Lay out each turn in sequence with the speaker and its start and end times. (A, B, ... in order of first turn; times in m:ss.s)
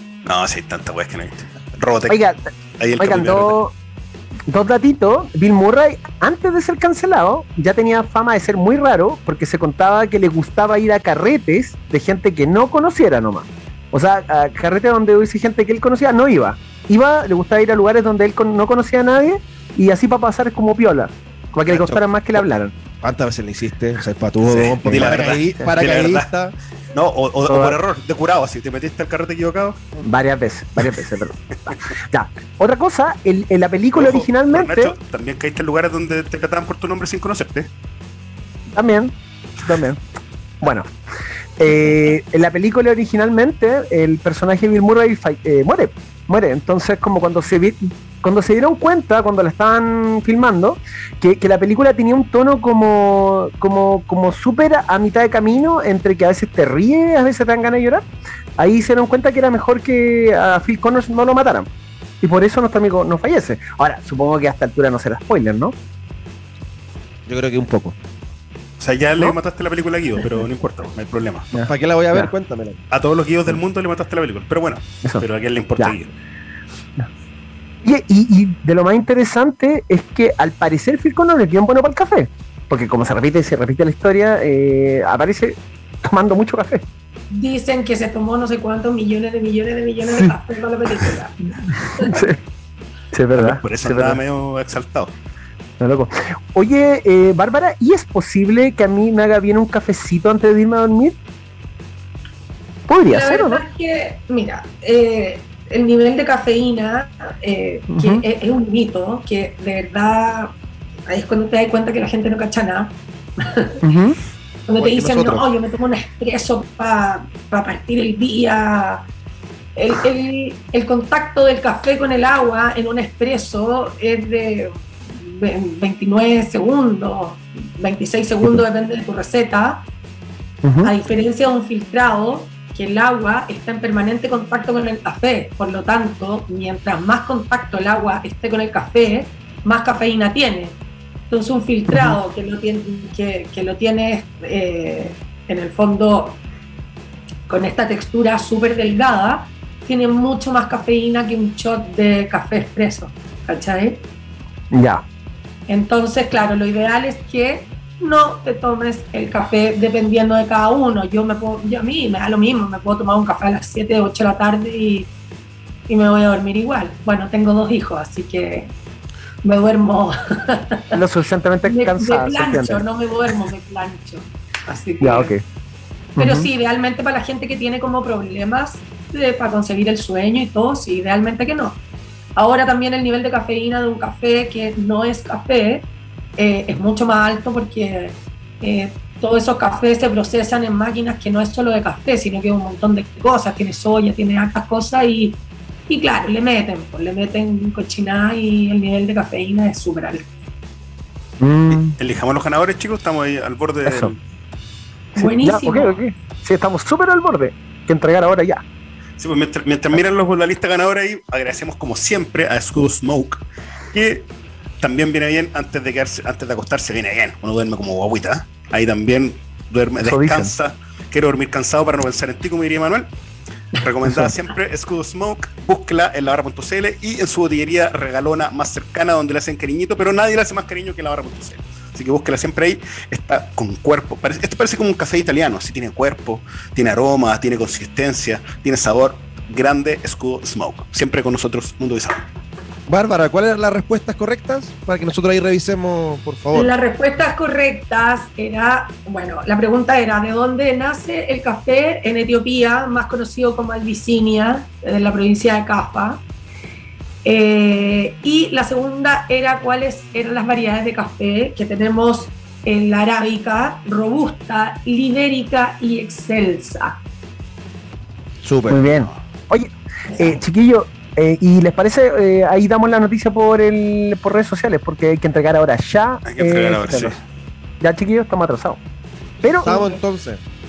0:00.2-0:02.2 A
0:02.1-0:02.4 B
0:02.8-0:03.6 A
0:03.0-0:03.7 B
0:04.5-0:22.7 B
0:21.7-0:22.0 A
0:23.0-0:26.5 C
0:24.4-0:26.3 A
0:24.9-0:25.6 B
0:26.9-0:29.8 A
0:27.5-0:27.8 B
0:30.0-0:34.9 B
0:33.9-0:37.7 A
0:38.7-0:40.0 B
0:40.6-0:40.9 B
0:41.6-0:58.0 B
0:58.6-1:01.7 B
1:02.2-1:05.7 B
1:07.3-1:08.0 C
1:08.8-1:11.6 A
1:11.5-1:12.3 B
1:11.7-1:12.8 C
1:12.9-1:16.1 A
1:17.8-1:26.8 B
1:27.3-1:32.2 D
1:30.0-1:30.3 B
1:32.0-1:32.4 B
1:33.1-1:34.2 B
1:33.4-1:35.1 A
1:35.8-1:41.2 B
1:42.9-1:43.6 B
1:43.1-1:50.5 D
1:47.9-1:48.2 B
1:51.1-1:53.8 D
1:53.8-1:54.2 B
1:54.7-1:59.0 D
1:54.8-1:55.5 C
1:59.8-2:09.8 D
2:10.6-2:10.9 B
2:10.8-2:20.8 D
2:21.3-2:26.4 D
2:21.9-2:22.2 B
2:27.5-2:34.0 D
2:34.7-2:35.0 B
2:35.7-2:45.1 D
2:45.9-2:48.7 D
2:49.4-2:51.0 D
2:50.9-2:52.8 B
2:51.6-2:55.3 D
2:55.0-2:55.4 B
2:56.2-2:56.5 B
2:56.2-3:01.8 D
3:02.4-3:05.8 D
3:06.4-3:20.3 D
3:21.4-3:21.9 B
3:21.7-3:24.1 A
3:23.8-3:24.1 B
3:25.2-3:26.0 D
3:25.2-3:28.6 B
3:29.2-3:34.3 A
3:34.8-3:43.1 A
3:40.0-3:40.5 B
3:43.8-4:02.2 A
3:44.0-3:44.3 B
4:02.9-4:06.7 C
4:06.5-4:16.2 D
4:17.2-4:27.0 D
4:28.4-4:29.0 C
4:28.7-4:37.2 B
4:36.2-4:37.2 A
4:37.8-4:38.8 B
4:39.4-4:40.4 C
4:39.4-4:39.8 B
4:39.6-4:40.0 D